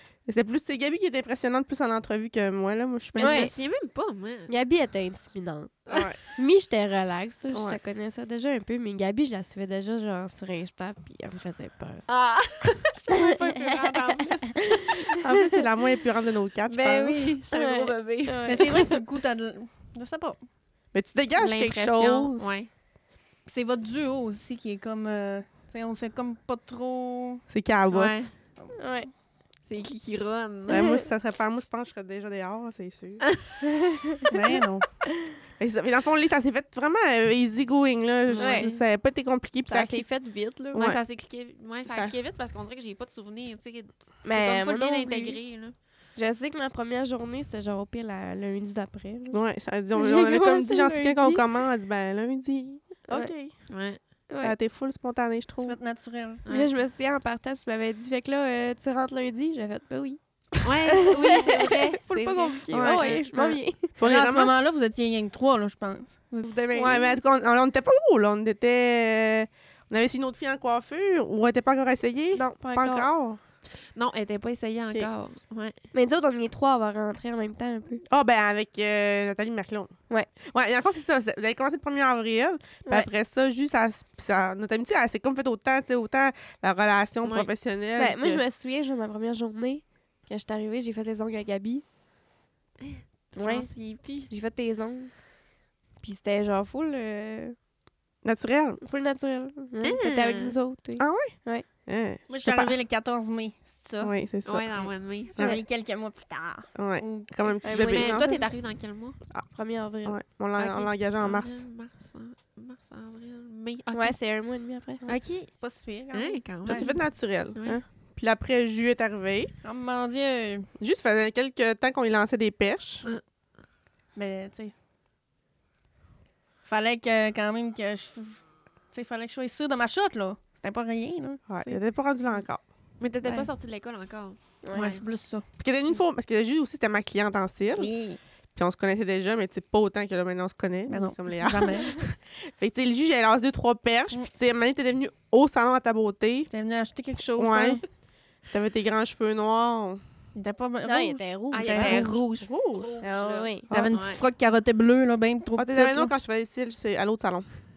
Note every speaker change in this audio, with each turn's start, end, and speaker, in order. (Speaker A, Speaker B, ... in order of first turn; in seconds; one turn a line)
Speaker A: 0.3-3.5
Speaker B: 3.2-4.5
Speaker C: 3.2-3.5
Speaker C: 4.5-12.0
Speaker A: 5.9-6.2
Speaker A: 7.5-7.8
Speaker B: 12.1-15.2
Speaker C: 13.1-14.5
Speaker A: 15.2-17.4
Speaker B: 16.7-18.9
Speaker C: 17.5-18.8
Speaker D: 18.5-20.4
Speaker A: 20.9-22.5
Speaker B: 21.4-22.7
Speaker D: 23.5-27.4
Speaker A: 27.5-28.3
Speaker B: 27.9-28.3
Speaker C: 28.8-29.1
Speaker B: 29.7-30.9
Speaker A: 30.7-33.3
Speaker C: 30.7-31.0
Speaker C: 33.6-34.4
Speaker D: 34.3-34.8
Speaker A: 35.6-40.1
Speaker B: 38.3-38.8
Speaker C: 38.4-38.7
Speaker C: 39.7-40.9
Speaker A: 40.7-41.0
Speaker B: 40.8-45.7
Speaker A: 41.9-42.1
Speaker C: 44.2-45.4
Speaker C: 46.2-49.4
Speaker A: 49.3-53.5
Speaker C: 49.9-51.4
Speaker B: 53.7-54.0
Speaker C: 54.3-54.5
Speaker A: 54.4-55.8
Speaker D: 55.6-56.4
Speaker C: 56.5-63.9
Speaker B: 60.6-63.2
Speaker A: 62.7-64.5
Speaker D: 64.0-66.5
Speaker C: 66.4-67.2
Speaker A: 66.7-73.4
Speaker C: 72.3-73.1
Speaker B: 74.0-75.8
Speaker C: 75.9-78.0
Speaker A: 78.1-88.4
Speaker B: 87.2-87.5
Speaker C: 88.0-91.8
Speaker B: 92.8-94.3
Speaker C: 93.4-95.3
Speaker C: 96.0-97.6
Speaker A: 98.2-98.8
Speaker C: 98.8-101.7
Speaker B: 99.8-100.6
Speaker A: 101.0-102.8
Speaker D: 102.3-104.1
Speaker A: 104.0-105.6
Speaker B: 104.5-105.4
Speaker D: 105.3-107.6
Speaker A: 106.7-108.5
Speaker C: 107.6-108.5
Speaker B: 107.7-109.2
Speaker C: 109.5-110.2
Speaker A: 110.0-111.6
Speaker B: 110.6-114.2
Speaker C: 113.9-115.0
Speaker B: 115.0-115.6
Speaker D: 115.5-116.9
Speaker B: 116.1-117.0
Speaker A: 116.7-119.5
Speaker B: 117.5-117.8
Speaker D: 119.6-120.7
Speaker A: 120.8-123.1
Speaker D: 124.2-124.7
Speaker D: 126.7-131.8
Speaker A: 131.5-132.6
Speaker B: 133.0-135.0
Speaker D: 133.2-133.5
Speaker C: 134.6-134.9
Speaker D: 134.7-135.4
Speaker A: 135.6-137.9
Speaker D: 137.8-138.2
Speaker A: 138.6-146.5
Speaker D: 140.9-142.0
Speaker D: 146.5-147.8
Speaker A: 147.4-147.8
Speaker A: 148.4-150.0
Speaker D: 150.3-152.2
Speaker C: 150.9-152.1
Speaker B: 151.5-154.2
Speaker A: 152.4-152.9
Speaker C: 153.0-153.7
Speaker D: 153.7-156.1
Speaker A: 155.6-157.5